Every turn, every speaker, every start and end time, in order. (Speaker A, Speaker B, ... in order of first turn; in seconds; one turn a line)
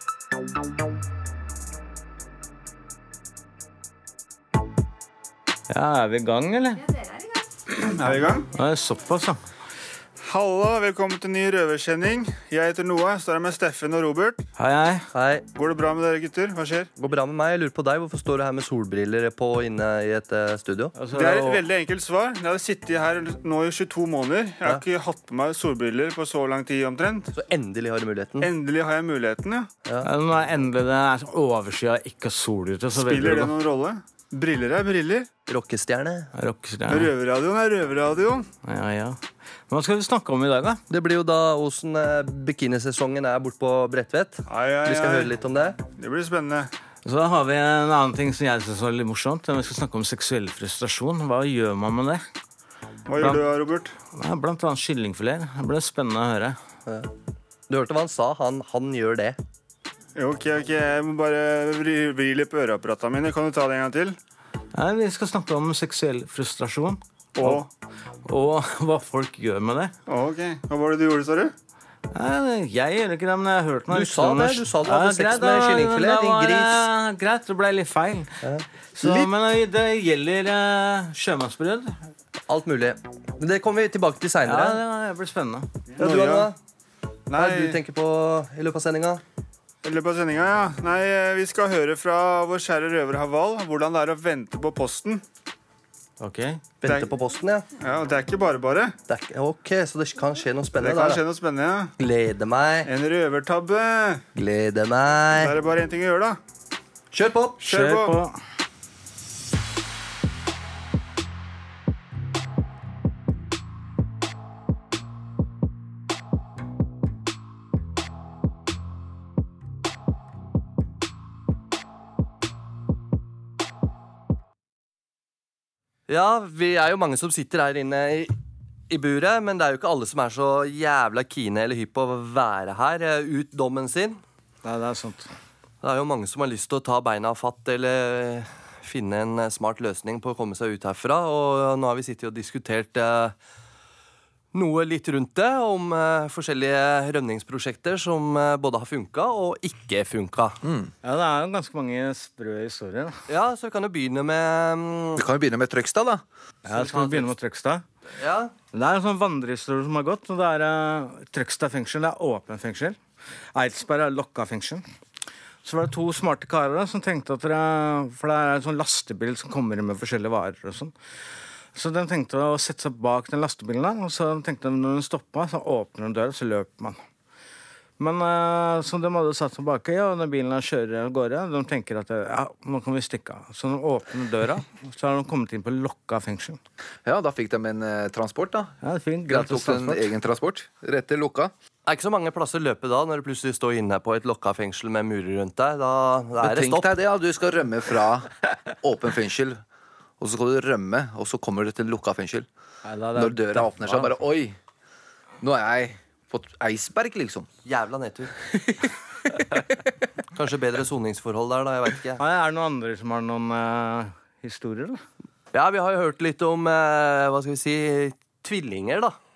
Speaker A: 5.7-6.9
Speaker B: 7.7-8.5
Speaker A: 8.5-9.4
Speaker B: 10.2-14.4
Speaker A: 14.6-15.1
Speaker C: 15.1-15.4
Speaker B: 15.5-16.9
Speaker C: 17.0-20.9
Speaker A: 20.9-21.6
Speaker B: 21.1-27.3
Speaker C: 27.3-28.5
Speaker B: 28.4-29.7
Speaker A: 30.0-33.5
Speaker B: 32.9-35.3
Speaker C: 35.5-36.3
Speaker A: 36.3-37.1
Speaker B: 36.9-38.5
Speaker A: 38.6-40.8
Speaker C: 40.9-45.8
Speaker B: 44.5-45.3
Speaker B: 46.0-46.7
Speaker A: 47.0-52.2
Speaker B: 53.1-53.9
Speaker A: 53.2-53.4
Speaker A: 54.1-56.6
Speaker C: 57.7-59.4
Speaker B: 60.1-64.2
Speaker A: 64.7-67.6
Speaker B: 67.3-67.7
Speaker A: 68.2-69.9
Speaker B: 70.1-71.5
Speaker A: 72.1-78.4
Speaker C: 73.9-76.8
Speaker C: 78.4-79.2
Speaker A: 79.0-82.0
Speaker C: 82.5-84.8
Speaker A: 84.4-85.7
Speaker B: 86.0-86.5
Speaker C: 86.0-86.5
Speaker B: 87.3-87.8
Speaker C: 87.3-89.2
Speaker B: 89.8-95.2
Speaker A: 96.2-96.6
Speaker C: 96.8-97.6
Speaker B: 96.8-97.1
Speaker B: 97.8-98.9
Speaker C: 99.1-101.2
Speaker B: 100.8-101.9
Speaker C: 102.0-102.9
Speaker B: 102.8-104.2
Speaker C: 104.3-105.5
Speaker B: 105.3-106.4
Speaker C: 107.1-107.6
Speaker B: 107.6-108.2
Speaker A: 107.6-108.3
Speaker C: 126.1-128.3
Speaker C: 128.9-134.2
Speaker A: 134.6-135.3
Speaker C: 135.8-143.3
Speaker C: 144.5-150.6
Speaker D: 150.6-150.9
Speaker A: 151.0-153.2
Speaker C: 153.3-155.2
Speaker D: 155.2-156.2
Speaker A: 156.7-157.8
Speaker C: 156.7-157.3
Speaker C: 158.2-158.5
Speaker A: 158.7-163.0
Speaker A: 163.5-164.8
Speaker A: 165.6-170.9
Speaker A: 171.7-177.0
Speaker A: 178.0-186.6
Speaker D: 187.0-188.7
Speaker A: 188.8-190.1
Speaker D: 189.3-191.5
Speaker C: 191.8-196.9
Speaker D: 196.4-199.6
Speaker D: 200.2-202.5
Speaker A: 202.8-204.1
Speaker D: 203.1-204.6
Speaker D: 205.4-207.5
Speaker C: 207.6-208.3
Speaker C: 210.3-212.2
Speaker A: 212.2-215.0
Speaker C: 215.5-219.2